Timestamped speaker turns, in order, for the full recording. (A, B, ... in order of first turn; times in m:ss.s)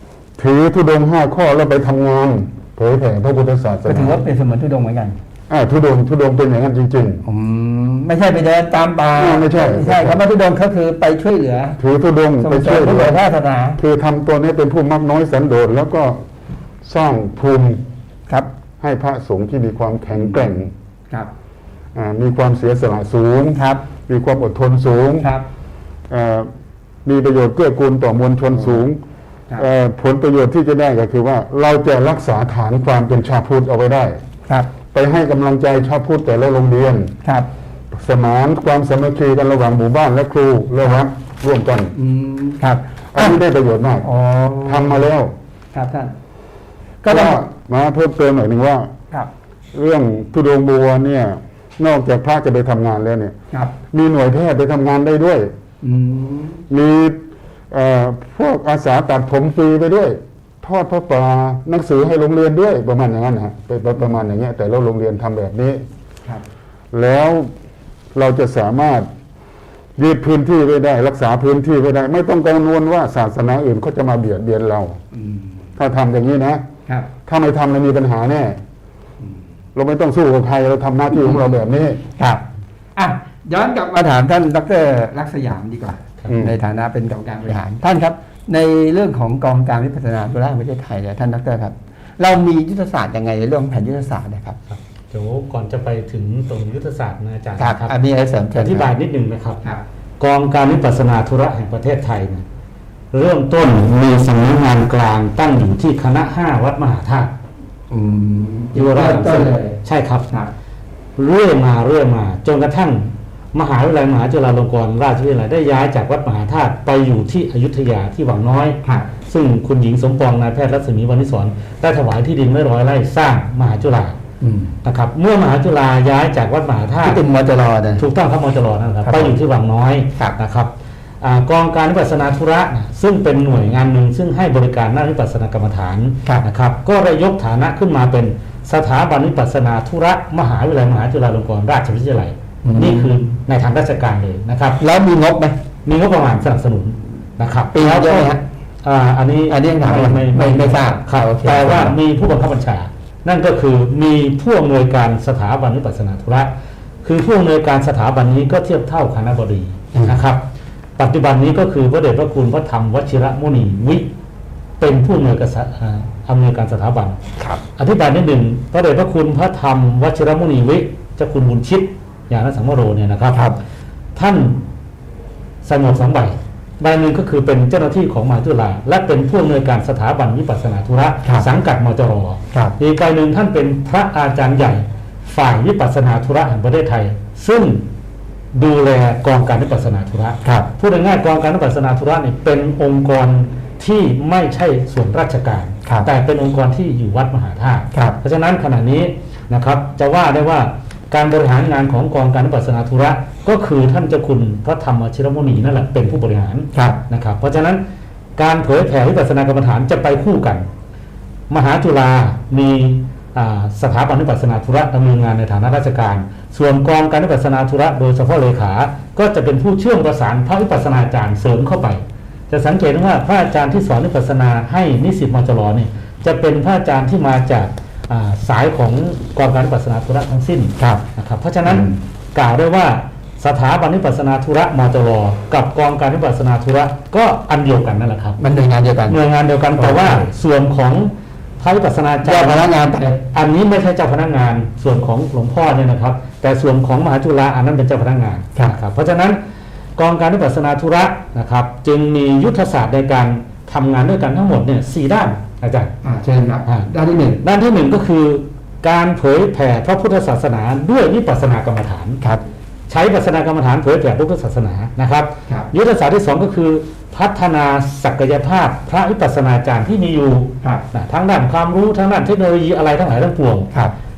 0:00.4-0:04.2 A
0:03.8-0:05.2 B
0:05.5-0:07.2 A
0:07.2-0:11.8 B
0:09.1-0:10.2 A
0:11.8-0:13.2 A
0:12.4-0:13.8 B
0:13.8-0:16.2 A
0:16.8-0:17.8 A
0:18.8-0:20.7 A
0:20.1-0:20.5 B
0:21.9-0:25.3 A
0:23.5-0:23.8 B
0:25.2-0:25.4 B
0:26.1-0:26.5 A
0:27.0-0:29.0 A
0:28.5-0:28.8 B
0:29.6-0:34.2 A
0:34.9-0:37.1 A
0:37.2-0:37.5 B
0:37.9-0:41.9 A
0:41.9-0:43.4 B
0:43.1-0:44.1 A
0:44.0-0:45.0 B
0:44.6-0:45.3 A
0:45.7-0:46.1 B
0:47.0-0:47.5 B
0:47.0-0:48.9 A
0:49.7-0:53.3 A
0:53.9-0:55.5 A
0:55.8-0:56.6 B
0:56.7-0:57.2 A
0:57.7-1:05.8 A
1:06.9-1:07.5 A
1:08.1-1:09.1 A
1:10.0-1:15.0 A
1:15.1-1:15.7 B
1:15.8-1:16.6 A
1:17.2-1:18.6 A
1:19.7-1:22.0 A
1:21.1-1:21.4 B
1:22.2-1:22.4 B
1:23.0-1:34.6 B
1:26.3-1:26.5 A
1:34.7-1:37.9 C
1:37.6-1:38.9 B
1:38.5-1:39.6 C
1:40.2-1:42.4 C
1:43.1-1:47.3 C
1:47.9-1:49.8 B
1:48.7-1:50.3 C
1:51.2-2:04.2 C
1:58.8-1:59.1 B
2:04.4-2:04.8 B
2:04.8-2:07.2 C
2:07.0-2:08.1 B
2:08.0-2:24.8 C
2:09.0-2:09.4 B
2:22.6-2:23.2 B
2:24.8-2:25.6 B
2:25.8-2:36.5 C
2:27.7-2:28.4 B
2:29.5-2:32.0 B
2:37.0-2:40.4 C
2:41.0-2:44.1 C
2:44.8-2:47.2 C
2:47.8-2:53.5 C
2:54.1-2:54.6 C
2:55.6-3:07.8 C
3:08.5-3:27.8 C
3:10.4-3:10.7 B
3:26.7-3:27.0 B
3:28.4-3:30.7 C
3:31.5-3:58.4 C
3:50.8-3:51.0 B
3:58.4-3:59.2 B
3:59.1-4:02.7 C
3:59.7-4:00.3 B
4:02.2-4:03.2 B
4:03.3-4:09.4 C
4:10.0-4:15.9 C
4:16.0-4:17.4 B
4:17.4-4:22.2 C
4:22.9-4:33.7 C